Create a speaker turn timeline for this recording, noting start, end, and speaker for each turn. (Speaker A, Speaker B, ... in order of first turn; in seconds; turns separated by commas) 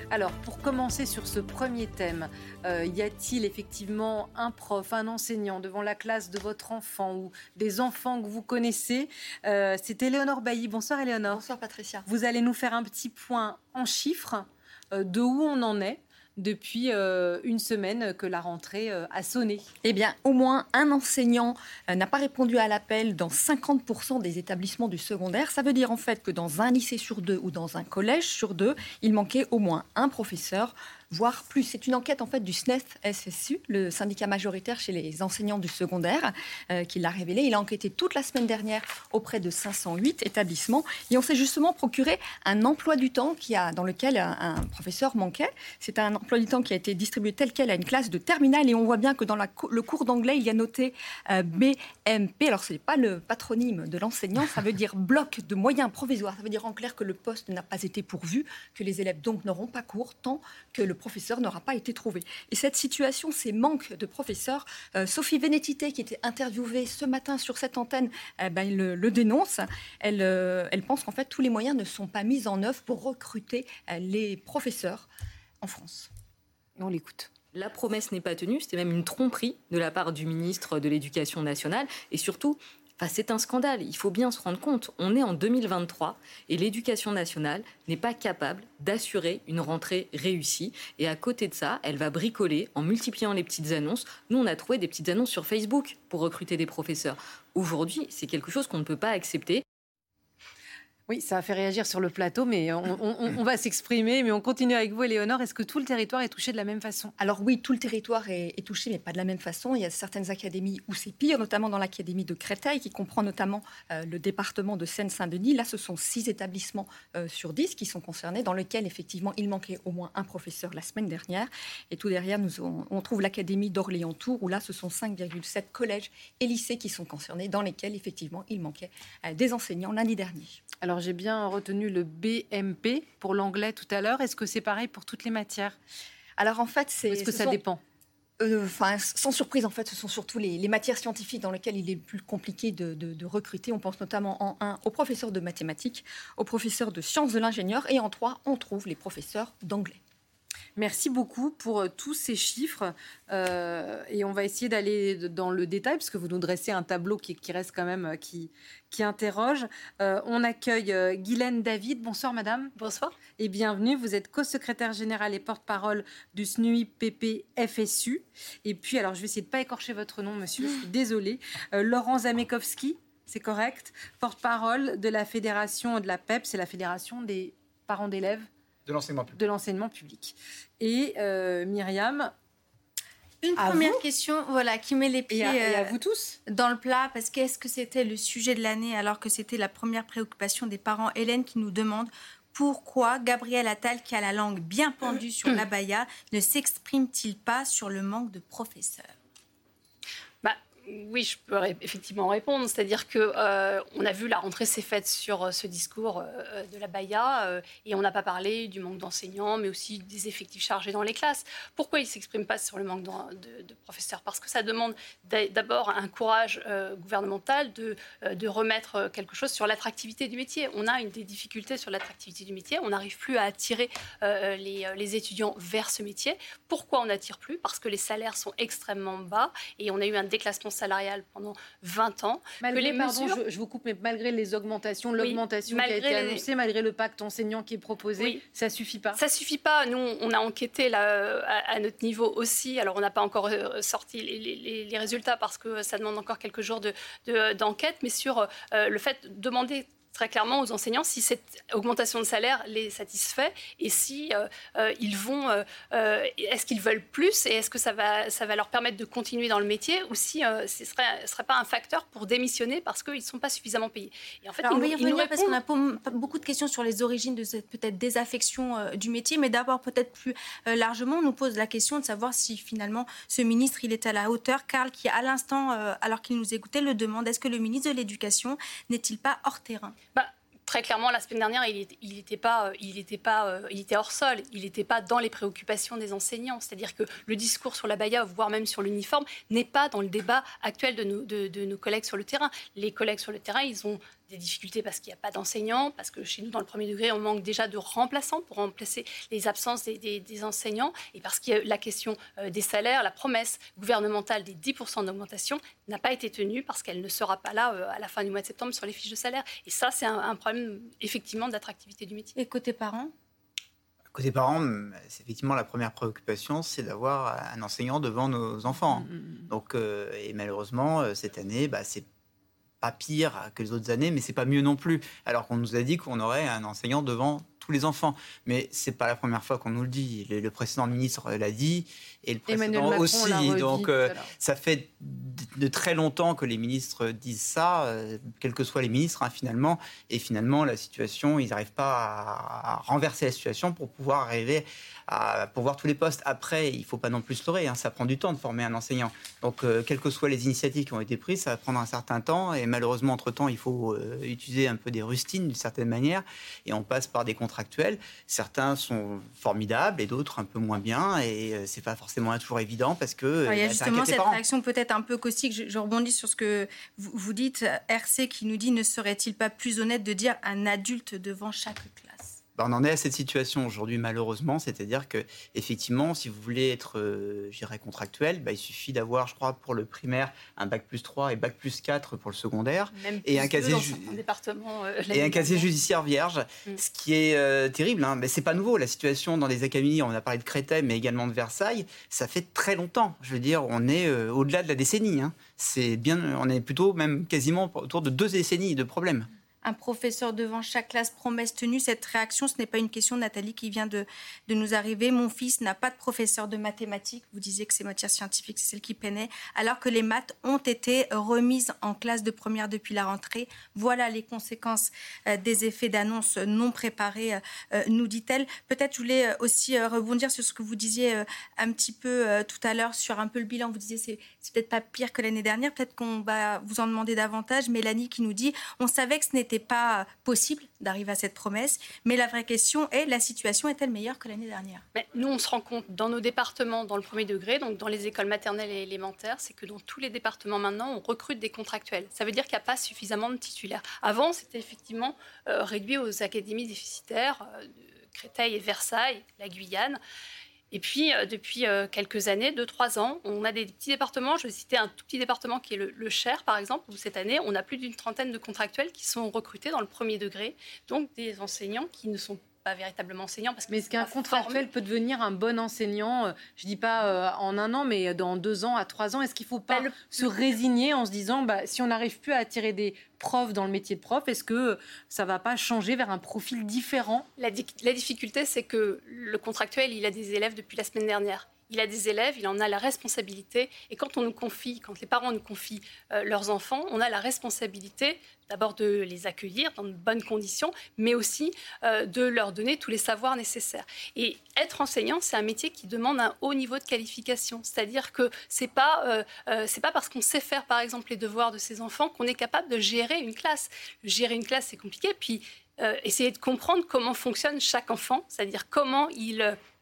Speaker A: 0.1-11.4, Speaker B: 11.3-12.1, Speaker A: 12.1-19.6, Speaker B: 19.8-75.1, Speaker B: 75.6-76.1, Speaker A: 76.8-77.3, Speaker C: 77.5-99.6, Speaker A: 101.1-107.1, Speaker B: 107.2-130.6, Speaker A: 130.8-135.8, Speaker B: 136.4-137.6, Speaker A: 137.1-137.8, Speaker B: 138.4-150.0, Speaker A: 150.8-162.7, Speaker D: 162.8-163.1, Speaker A: 163.4-178.5, Speaker E: 178.8-179.4, Speaker A: 179.3-182.3, Speaker F: 183.4-185.9, Speaker A: 183.6-184.0, Speaker A: 185.3-186.4, Speaker F: 186.5-199.0, Speaker D: 200.4-233.4, Speaker A: 232.6-239.2, Speaker D: 235.2-236.4, Speaker D: 239.2-265.6, Speaker F: 264.6-279.9, Speaker D: 280.1-312.3, Speaker F: 312.4-313.1, Speaker E: 314.1-322.0, Speaker A: 318.9-319.5, Speaker E: 322.8-364.4, Speaker A: 332.5-334.3, Speaker F: 363.4-372.4, Speaker E: 372.6-384.2, Speaker D: 382.9-385.7, Speaker E: 385.1-399.3, Speaker F: 399.6-434.8, Speaker D: 434.9-450.0, Speaker D: 450.7-464.6, Speaker A: 463.7-477.3, Speaker D: 469.7-470.3, Speaker D: 477.4-509.6